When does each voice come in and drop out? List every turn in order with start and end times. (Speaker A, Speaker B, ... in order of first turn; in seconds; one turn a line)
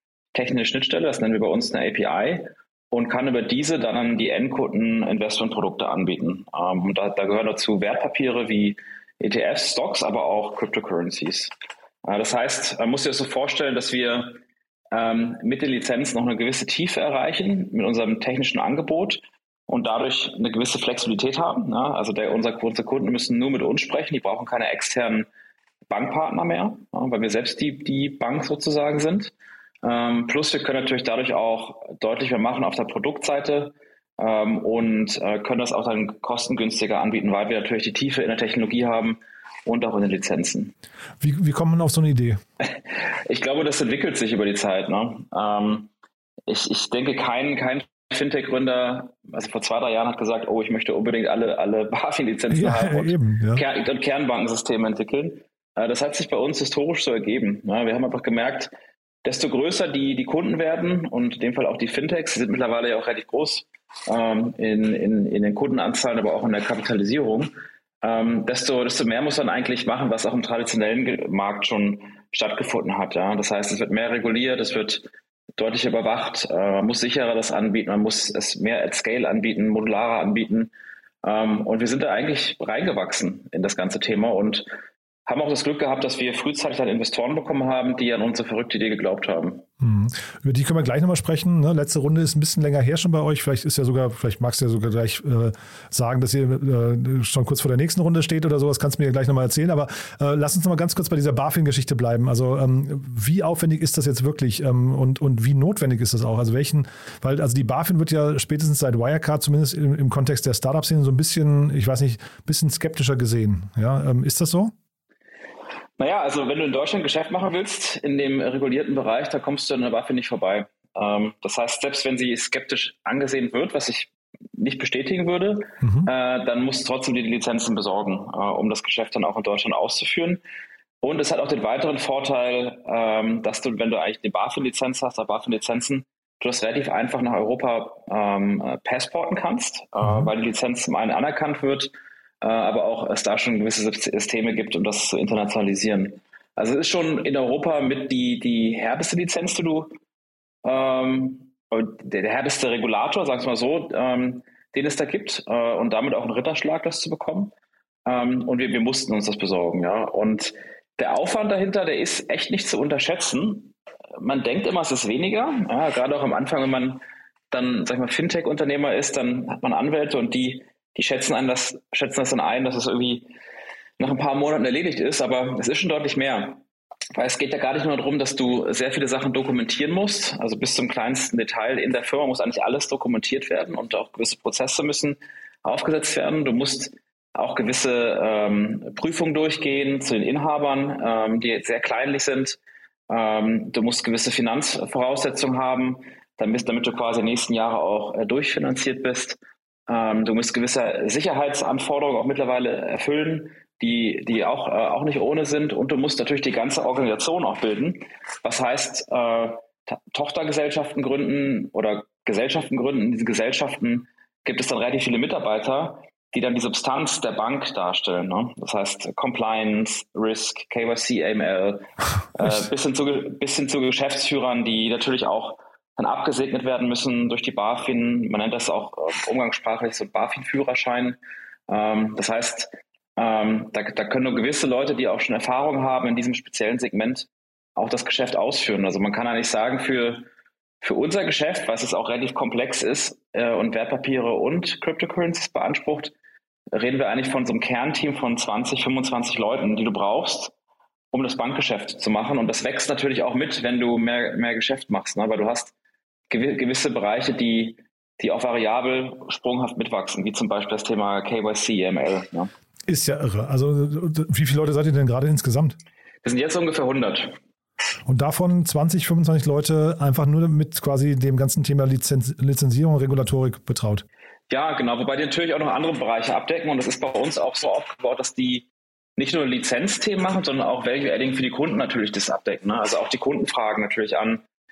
Speaker A: 0.3-11.5
Speaker A: 12.0-14.4
Speaker A: 14.9-25.3
Speaker A: 25.9-40.7
Speaker B: 41.2-42.4
Speaker A: 43.2-45.9
Speaker A: 46.5-58.7
Speaker B: 52.5-53.6
Speaker A: 59.2-80.7
Speaker A: 81.2-84.7
Speaker A: 85.2-89.6
Speaker B: 89.8-114.7
Speaker A: 116.0-130.4
Speaker A: 131.0-149.9
Speaker B: 140.0-140.3
Speaker A: 150.6-157.5
Speaker A: 158.1-173.3
Speaker A: 174.0-176.6
Speaker A: 177.1-192.6
Speaker A: 193.1-240.2
Speaker A: 240.8-246.1
Speaker A: 246.7-250.5
Speaker A: 251.1-255.7
Speaker A: 256.3-262.5
Speaker B: 262.9-265.8
Speaker A: 266.2-267.4
Speaker B: 268.1-274.0
Speaker A: 274.5-284.4